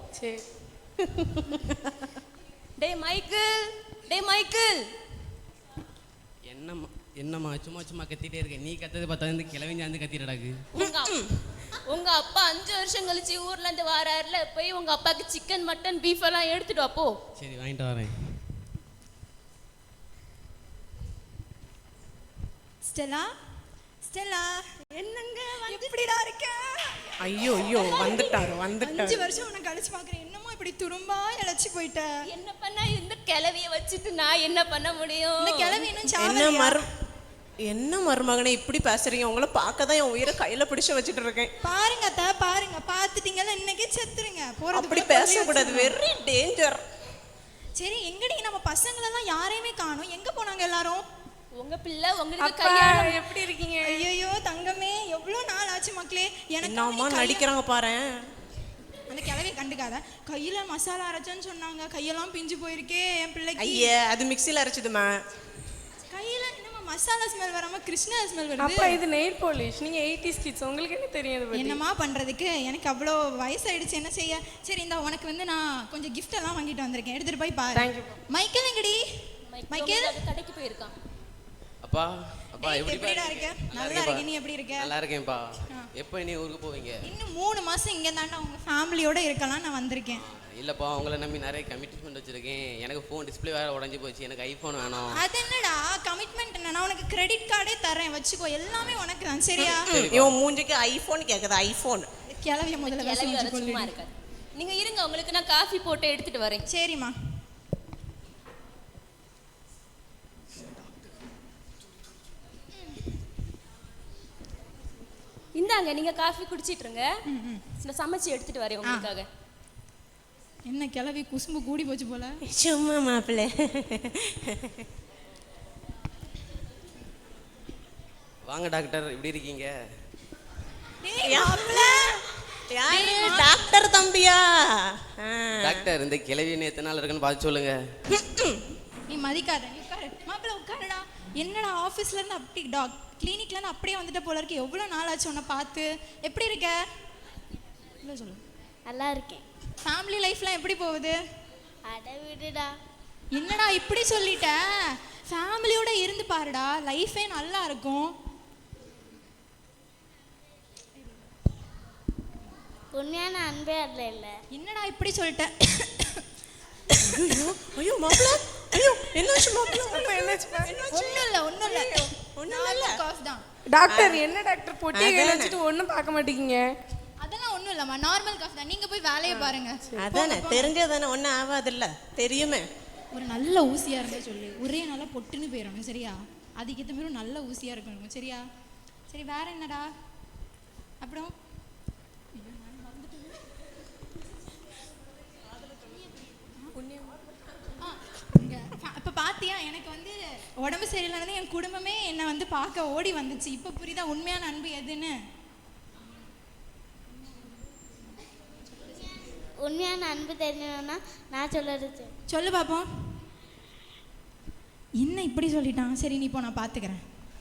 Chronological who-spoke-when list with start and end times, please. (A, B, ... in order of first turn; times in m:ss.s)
0:00.2-0:00.4 A
0:01.2-0:01.6 B
0:02.8-0:03.5 C
0:04.1-0:04.7 C
0:06.4-0:10.6 D
0:10.7-0:11.3 C
0:10.8-0:11.2 B
0:11.9-0:17.1 C
0:17.4-0:18.1 D
0:22.8-0:23.3 E
0:24.0-0:24.6 E
0:24.9-0:25.9 C
0:25.7-0:32.1 E
0:27.2-0:29.3 B
0:27.8-0:28.3 C
0:32.3-0:35.8 C
0:35.4-0:36.9 E
0:36.2-0:36.9 B
0:37.6-0:41.5 B
0:41.6-0:46.0 E
0:44.7-0:46.8 B
0:47.8-0:51.0 E
0:51.6-0:53.2 C
0:52.4-0:54.1 A
0:53.8-0:57.5 E
0:56.6-0:58.1 B
0:59.1-1:03.9 E
1:03.6-1:05.1 B
1:06.1-1:09.0 E
1:08.6-1:11.8 A
1:11.5-1:19.0 E
1:17.7-1:18.2 A
1:19.5-1:20.9 C
1:19.7-1:20.2 E
1:21.8-1:24.2 D
1:22.6-1:24.9 E
1:24.8-1:27.0 D
1:27.0-1:30.2 E
1:30.1-1:35.2 D
1:35.1-1:39.9 E
1:39.6-1:42.1 B
1:39.9-1:40.4 D
1:42.3-1:43.9 E
1:42.8-1:46.6 C
1:46.7-1:47.1 E
1:55.6-1:57.1 C
1:57.3-1:57.6 E
1:57.8-1:59.3 C
2:00.7-2:02.4 E
2:02.5-2:04.8 B
2:08.4-2:09.7 D
2:11.0-2:12.2 E
2:11.2-2:12.2 B
2:12.7-2:15.8 B
2:12.8-2:13.6 E
2:15.6-2:17.8 D
2:18.1-2:18.6 B
2:19.1-2:26.8 E
2:28.0-2:28.4 E
2:28.9-2:29.4 F
2:29.8-2:31.2 E
2:31.9-2:32.7 F
2:33.3-2:38.2 E
2:42.9-2:44.4 F
2:44.5-2:46.2 E
2:46.9-2:47.3 E
2:47.0-2:53.0 B
2:49.7-2:50.0 E
2:50.0-2:50.8 A
2:50.9-2:53.4 E
2:53.7-2:56.7 A
2:53.8-2:54.2 B
2:54.9-2:55.6 B
2:57.2-3:00.7 E
2:59.3-2:59.6 A
3:00.0-3:02.6 B
3:03.1-3:08.4 E
3:09.1-3:09.9 E
3:11.0-3:11.3 E
3:12.4-3:13.4 E
3:16.8-3:17.1 A
3:17.8-3:25.1 E
3:29.2-3:32.1 F
3:32.3-3:32.9 E
3:35.0-3:37.0 E